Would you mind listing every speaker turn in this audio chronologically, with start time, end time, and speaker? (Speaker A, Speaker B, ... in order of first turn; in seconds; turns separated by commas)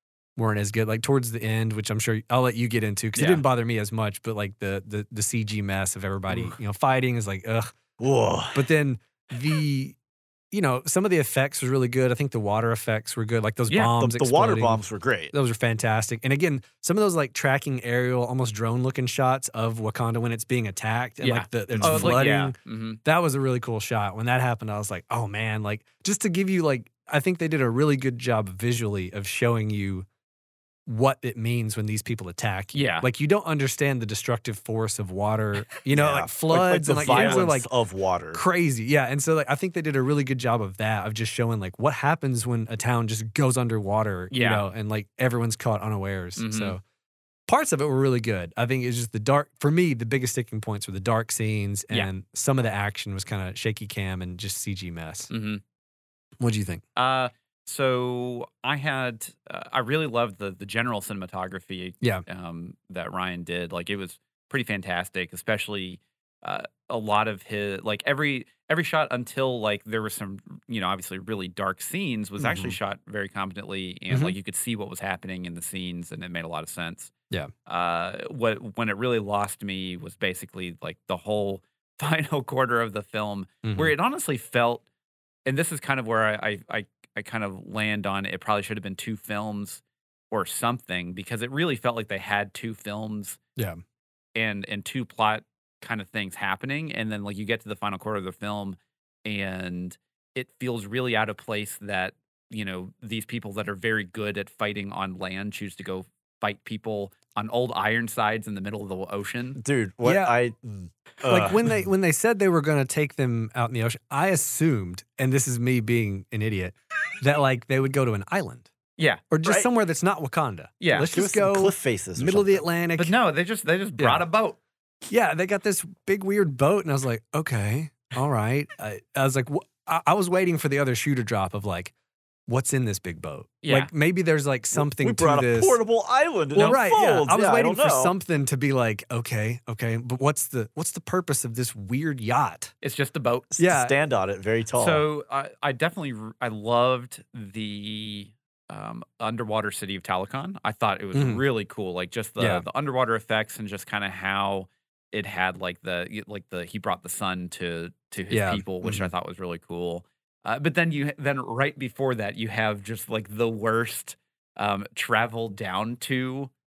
Speaker A: 0.3-7.7, Speaker B: 3.1-3.4, Speaker C: 6.3-6.5, Speaker C: 8.0-8.7, Speaker A: 8.5-10.0, Speaker A: 10.5-30.1, Speaker B: 13.7-13.9, Speaker C: 14.0-15.3, Speaker B: 21.2-23.0, Speaker C: 21.7-22.2, Speaker A: 30.9-37.7, Speaker B: 32.7-33.1, Speaker C: 35.9-38.4, Speaker B: 37.1-37.4, Speaker A: 38.3-46.8, Speaker B: 44.3-44.6, Speaker B: 46.4-46.8, Speaker A: 47.5-55.3, Speaker B: 55.3-55.6, Speaker A: 56.4-56.8, Speaker B: 57.0-77.1, Speaker C: 72.4-72.7, Speaker A: 74.1-74.3, Speaker B: 77.7-84.8, Speaker A: 83.6-83.9, Speaker B: 85.5-93.4, Speaker B: 94.3-109.6, Speaker C: 109.5-111.6, Speaker A: 110.0-110.3, Speaker A: 111.2-118.7, Speaker A: 119.3-123.1, Speaker C: 119.4-119.7, Speaker B: 120.8-121.1, Speaker C: 121.0-122.7, Speaker B: 123.0-124.6, Speaker A: 124.0-124.2, Speaker A: 125.0-131.9, Speaker A: 132.5-135.8, Speaker B: 133.6-133.9, Speaker C: 134.7-138.1, Speaker A: 136.5-142.7, Speaker B: 142.8-143.5, Speaker C: 143.5-145.0, Speaker A: 143.6-143.9, Speaker B: 144.7-166.5, Speaker A: 151.1-151.4, Speaker A: 152.4-152.6, Speaker A: 158.3-158.6, Speaker C: 158.8-159.1